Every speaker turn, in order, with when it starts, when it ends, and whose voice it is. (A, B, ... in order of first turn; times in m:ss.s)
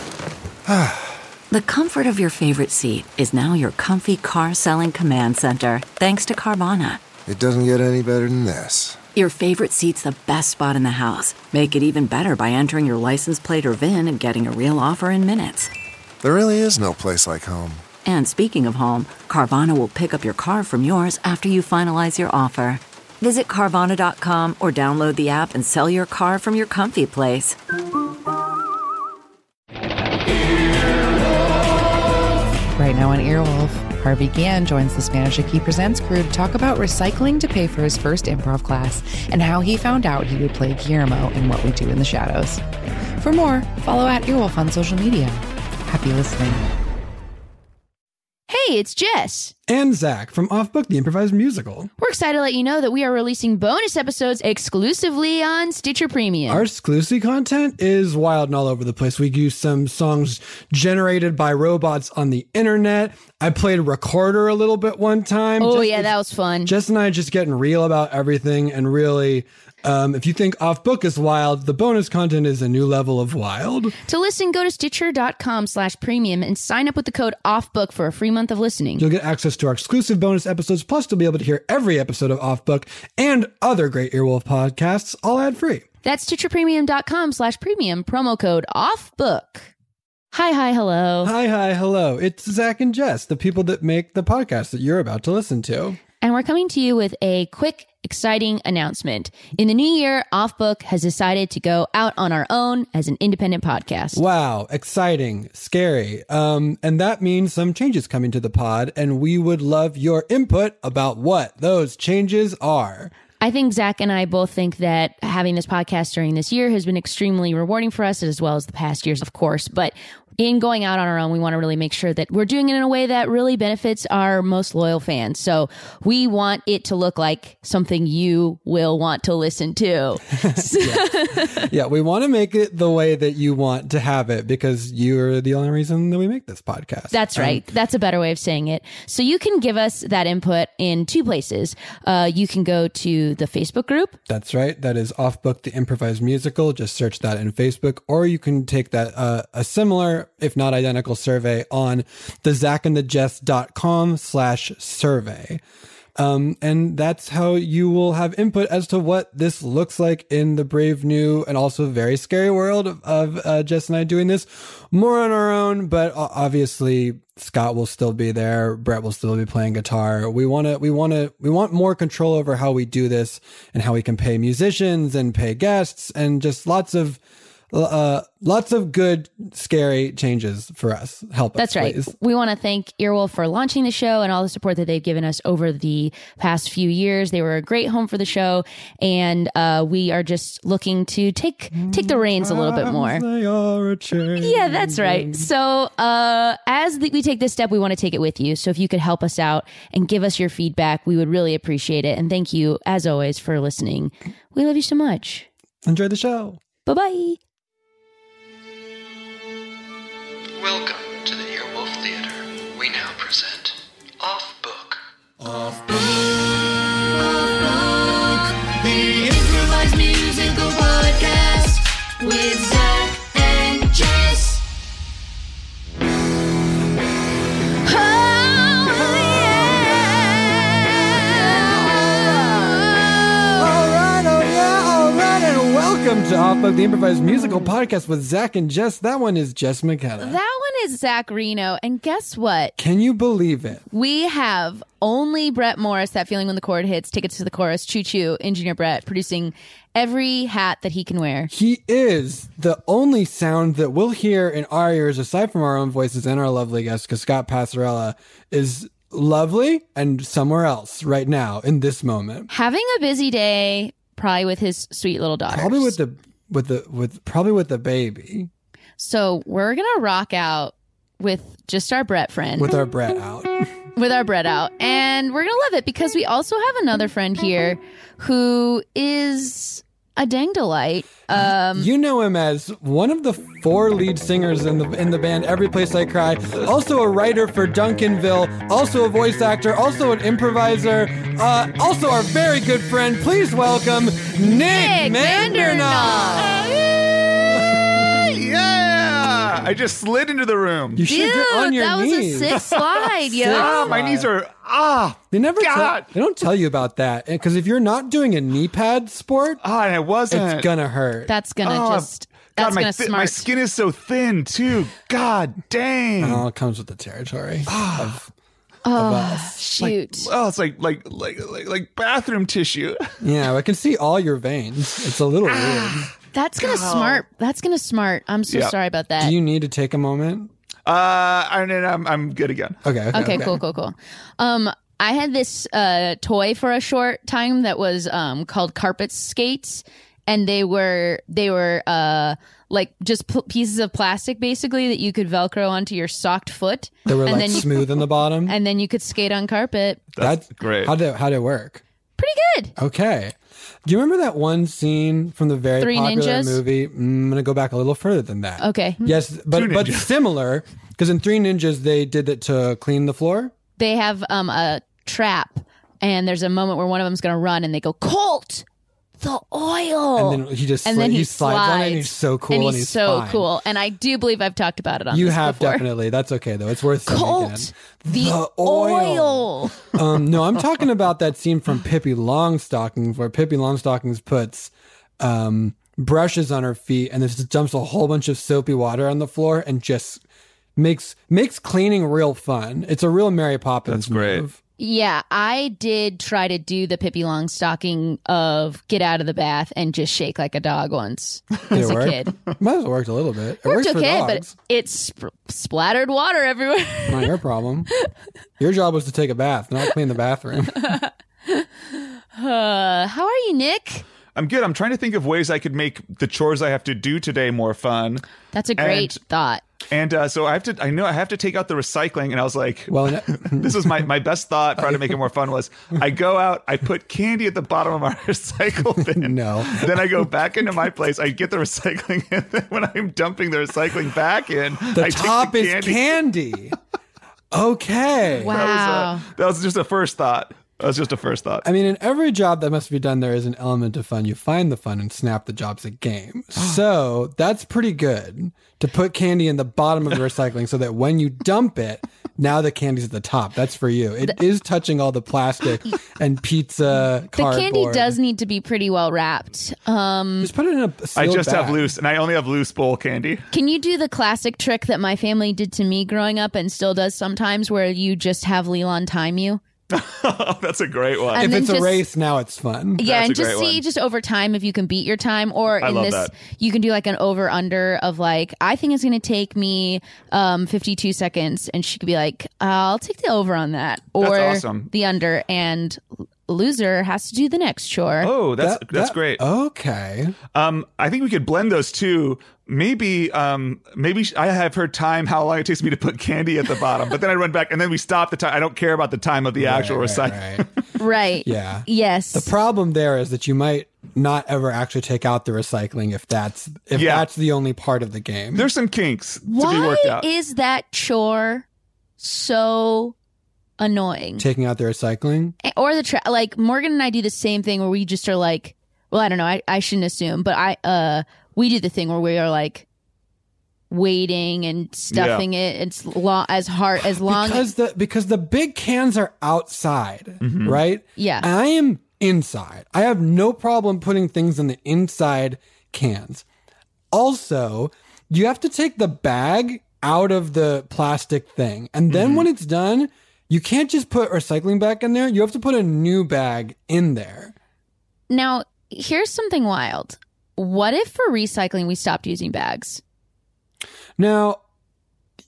0:00.7-0:01.1 A
0:01.5-0:07.0 B
0:07.3-0:09.0 A
0:09.2-0:15.7 B
0:16.2-0:17.8 A
0:18.0-0:27.6 B
0:32.7-0:42.6 C
0:43.2-0:46.6 C
0:48.5-0:49.5 D
0:49.7-0:51.9 E
0:52.0-0:56.7 D
0:56.5-1:13.9 E
1:05.6-1:06.7 D
1:14.1-1:19.0 D
1:19.0-1:25.8 E
1:26.0-1:29.7 D
1:30.3-1:31.3 D
1:31.2-1:36.0 E
1:36.2-1:44.2 D
1:44.1-1:53.1 E
1:53.4-2:11.6 D
2:10.4-2:17.6 E
2:17.1-2:24.2 D
2:24.3-2:35.6 E
2:36.2-2:57.2 E
2:57.7-3:02.1 E
3:01.6-3:13.2 D
3:11.7-3:15.5 E
3:14.4-3:25.5 D
3:25.8-3:26.6 E
3:26.9-3:27.4 D
3:30.6-3:35.0 F
3:35.7-3:36.2 F
3:37.5-3:41.4 F
3:42.2-3:44.2 F
3:47.8-3:53.6 D
3:49.2-3:50.0 E
3:51.4-3:52.7 E
3:53.6-4:00.4 E
4:00.2-4:02.8 D
4:02.8-4:03.8 E
4:03.9-4:11.5 D
4:11.5-4:22.5 E
4:22.5-4:26.0 D
4:25.5-4:28.5 E
4:29.0-4:32.8 D
4:32.6-4:33.6 E
4:34.0-4:41.9 D
4:41.8-4:56.7 E
4:54.7-4:56.7 D
4:58.0-5:01.0 G
5:01.0-5:02.7 E
5:01.0-5:04.0 D
5:03.3-5:04.3 E
5:03.4-5:06.1 G
5:05.3-5:09.6 E
5:09.6-5:10.7 G
5:10.3-5:11.3 E
5:11.3-5:13.4 D
5:11.6-5:16.4 G
5:16.2-5:18.3 E
5:17.7-5:18.2 G
5:18.8-5:20.3 D
5:18.9-5:19.6 E
5:19.8-5:23.0 G
5:23.2-5:26.1 E
5:25.5-5:26.1 G
5:26.3-5:29.4 D
5:26.6-5:27.2 G
5:28.5-5:28.7 G
5:29.2-5:30.5 E
5:30.9-5:32.8 G
5:32.8-5:33.6 E
5:33.1-5:47.7 D
5:47.1-5:48.6 E
5:48.4-5:50.0 D
5:50.2-5:50.9 G
5:50.2-5:51.8 E
5:52.2-5:52.8 D
5:52.8-6:03.5 E
5:55.8-5:56.6 D
5:58.6-5:59.2 D
5:59.5-6:00.1 G
6:03.8-6:08.6 D
6:09.2-6:15.9 D
6:10.2-6:13.5 E
6:15.1-6:30.2 E
6:17.1-6:19.8 D
6:30.8-6:34.6 E
6:33.9-6:34.4 G
6:34.8-6:42.4 D
6:41.7-6:44.5 E
6:43.6-6:47.3 D
6:47.1-6:47.9 E
6:48.6-6:51.0 E
6:50.8-6:54.0 D
6:54.4-6:58.3 G
6:58.5-6:59.6 D
6:58.8-6:59.2 G
6:59.9-7:16.0 G
7:02.9-7:04.0 E
7:04.8-7:05.2 E
7:09.0-7:10.2 E
7:14.9-7:16.8 E
7:17.5-7:18.6 E
7:18.4-7:19.3 D
7:18.4-7:21.6 G
7:21.6-7:38.2 E
7:26.6-7:26.8 G
7:37.4-7:40.5 D
7:40.4-7:41.8 E
7:41.2-7:43.5 G
7:43.5-7:49.6 D
7:49.9-7:51.5 G
7:51.3-7:53.0 E
7:51.4-7:52.0 D
7:53.0-8:08.3 D
7:53.0-7:53.8 G
7:55.8-7:56.3 G
8:04.2-8:04.9 G
8:08.2-8:09.4 G
8:08.6-8:10.4 E
8:10.5-8:20.7 G
8:19.6-8:20.6 E
8:21.0-8:22.5 D
8:21.4-8:28.7 E
8:26.9-8:27.3 G
8:28.6-8:30.3 G
8:29.5-8:31.7 D
8:32.2-8:33.2 D
8:33.8-8:34.5 D
8:34.4-8:35.6 E
8:35.6-8:42.8 D
8:43.9-8:47.7 D
8:45.1-8:45.5 G
8:47.0-8:56.4 E
8:50.4-8:50.8 G
8:51.2-8:51.5 D
8:57.1-9:07.5 E
9:02.1-9:02.5 G
9:08.3-9:13.0 D
9:14.2-9:14.6 E